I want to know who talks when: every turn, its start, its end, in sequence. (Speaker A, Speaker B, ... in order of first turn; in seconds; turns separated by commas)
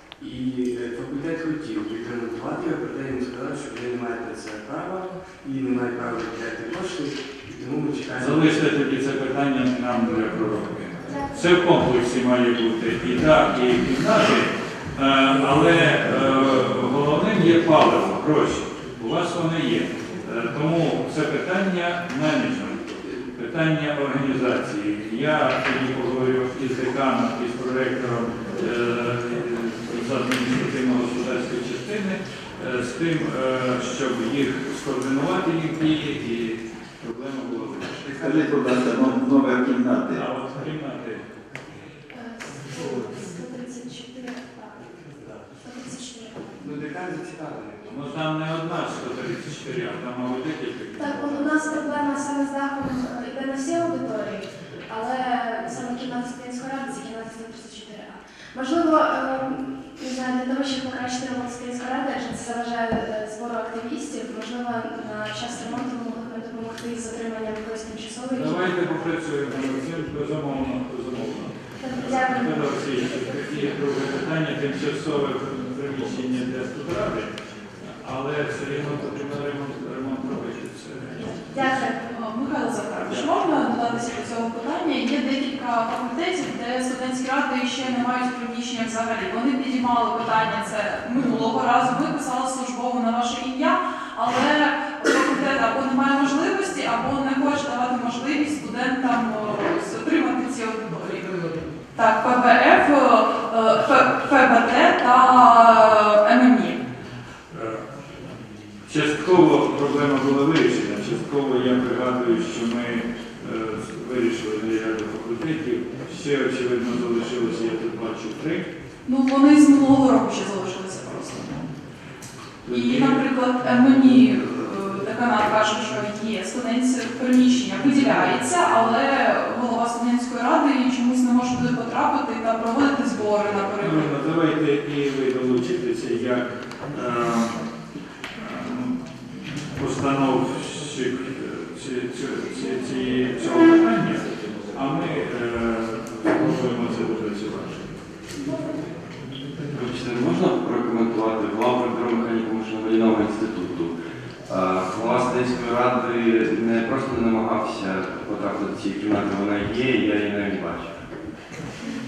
Speaker A: 0.2-8.7, Speaker B: 8.1-38.1, Speaker C: 11.1-11.5, Speaker D: 38.0-40.2, Speaker B: 40.1-41.2, Speaker C: 42.1-44.9, Speaker C: 45.6-46.9, Speaker A: 46.6-47.9, Speaker B: 47.8-51.9, Speaker C: 51.0-68.7, Speaker B: 68.3-81.3, Speaker C: 71.8-72.7, Speaker C: 81.2-82.1, Speaker E: 82.1-101.3, Speaker E: 102.0-106.8, Speaker B: 107.5-107.8, Speaker B: 108.8-118.7, Speaker E: 119.0-121.6, Speaker B: 122.6-123.2, Speaker E: 122.7-134.1, Speaker B: 133.8-137.5, Speaker B: 138.4-139.0, Speaker B: 139.7-148.0, Speaker F: 149.7-153.9, Speaker F: 154.5-160.9